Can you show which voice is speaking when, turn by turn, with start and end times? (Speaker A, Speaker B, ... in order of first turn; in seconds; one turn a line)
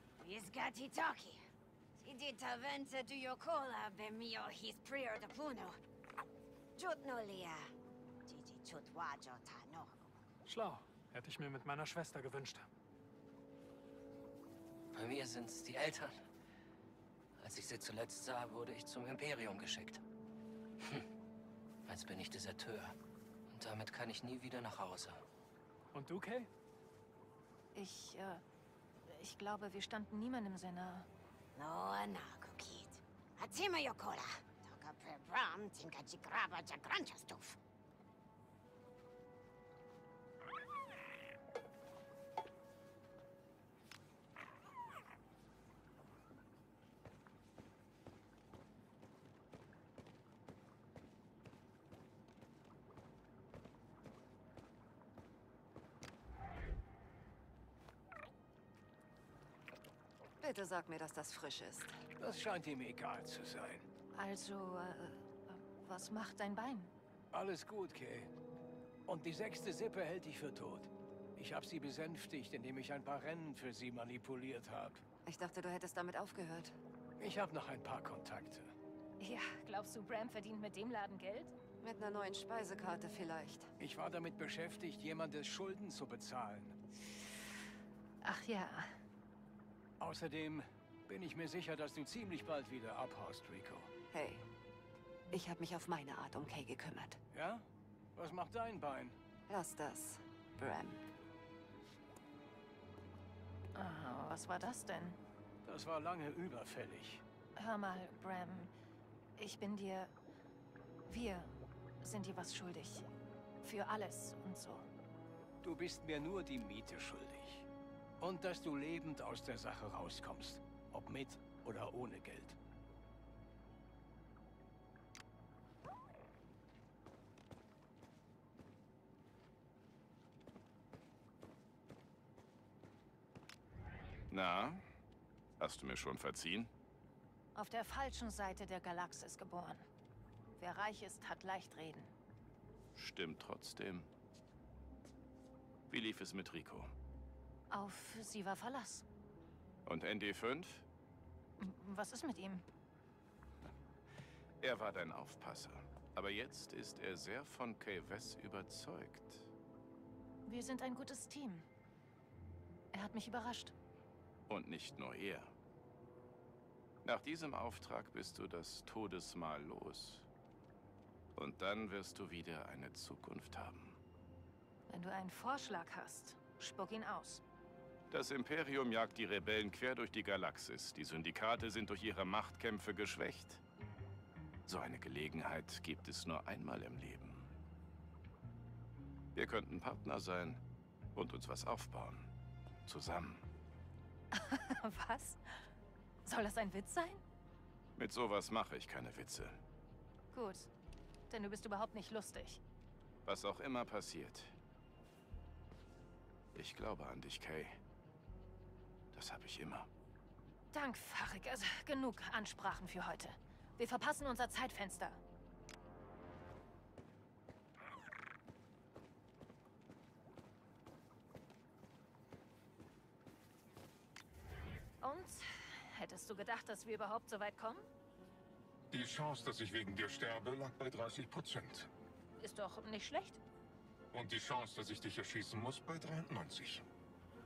Speaker A: 0.2-1.4
Speaker A: 2.0-5.8
Speaker A: 6.8-7.7
Speaker A: 8.3-10.0
Speaker B: 10.5-12.7
Speaker C: 14.9-16.2
Speaker C: 17.4-20.0
Speaker C: 21.9-23.0
Speaker C: 23.5-25.2
Speaker B: 25.9-26.5
Speaker D: 27.8-28.4
Speaker D: 29.1-31.1
Speaker A: 31.6-37.6
Speaker E: 60.4-61.9
Speaker F: 62.2-63.9
Speaker D: 64.1-66.9
Speaker F: 67.3-68.3
Speaker F: 69.1-75.0
Speaker E: 75.2-76.8
Speaker F: 77.2-78.7
Speaker D: 79.2-81.5
Speaker E: 81.8-83.7
Speaker F: 83.8-86.8
Speaker D: 88.2-88.9
Speaker F: 90.0-93.9
Speaker E: 94.1-94.5
Speaker E: 95.3-97.2
Speaker F: 97.3-97.7
Speaker F: 98.2-99.2
Speaker E: 99.5-101.0
Speaker D: 103.8-105.2
Speaker F: 105.7-107.2
Speaker D: 107.6-108.7
Speaker D: 109.4-110.1
Speaker D: 111.1-113.1
Speaker D: 113.6-114.9
Speaker F: 115.6-117.7
Speaker F: 118.2-122.6
Speaker G: 134.3-134.8
Speaker G: 135.6-136.7
Speaker D: 137.6-139.9
Speaker D: 140.6-142.1
Speaker G: 142.9-144.1
Speaker G: 145.9-146.9
Speaker D: 147.7-149.1
Speaker G: 149.9-150.8
Speaker D: 151.6-152.6
Speaker G: 154.6-159.5
Speaker D: 160.5-161.7
Speaker D: 162.9-163.7
Speaker G: 164.5-165.5
Speaker G: 167.0-170.3
Speaker G: 171.4-174.0
Speaker D: 174.9-177.4
Speaker G: 178.1-183.6
Speaker G: 184.7-187.5
Speaker G: 189.3-190.6
Speaker G: 191.2-192.3
Speaker G: 192.9-193.4
Speaker D: 194.3-195.6
Speaker D: 196.2-197.2
Speaker G: 198.0-199.6
Speaker D: 200.3-200.7
Speaker D: 201.3-202.6
Speaker G: 203.2-204.5
Speaker G: 206.6-207.8
Speaker G: 209.1-209.9
Speaker D: 210.7-215.2
Speaker D: 225.0-227.9
Speaker H: 228.9-231.9
Speaker D: 232.4-233.4
Speaker H: 234.1-236.8